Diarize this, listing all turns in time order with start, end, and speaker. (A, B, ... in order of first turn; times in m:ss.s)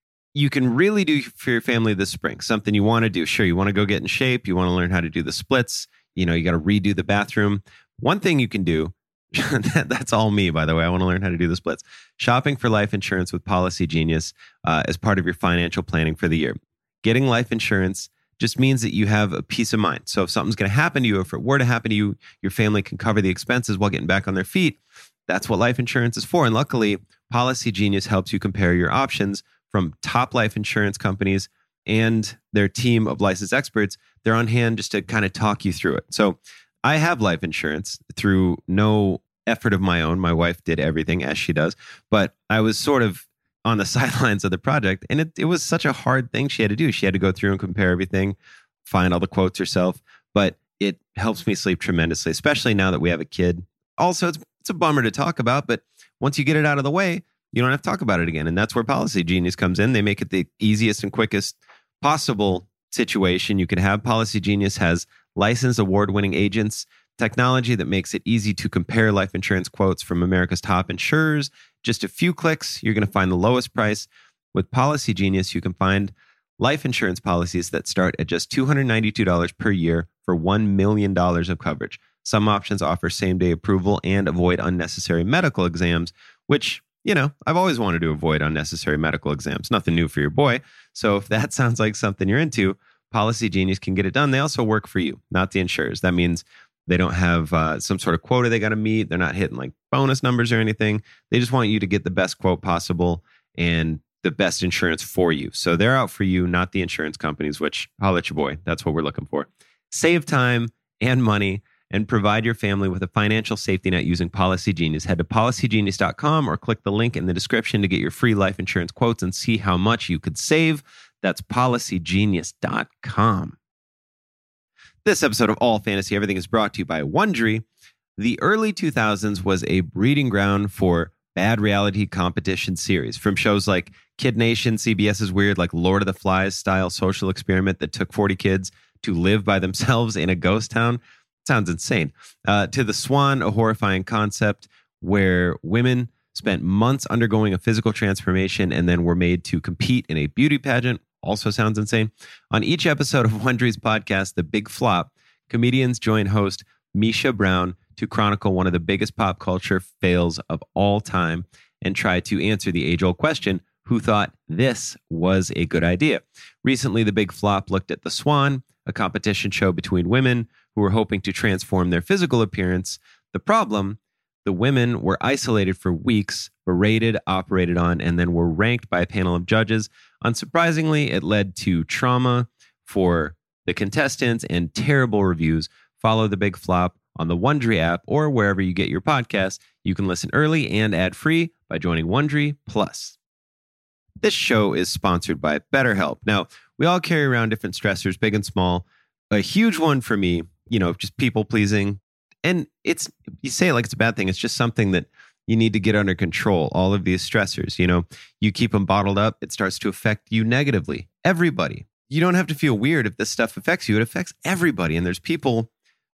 0:00.3-2:03.6 A
2:05.0-2:07.6 A
2:08.2-3:13.2 A
3:14.2-3:35.7 A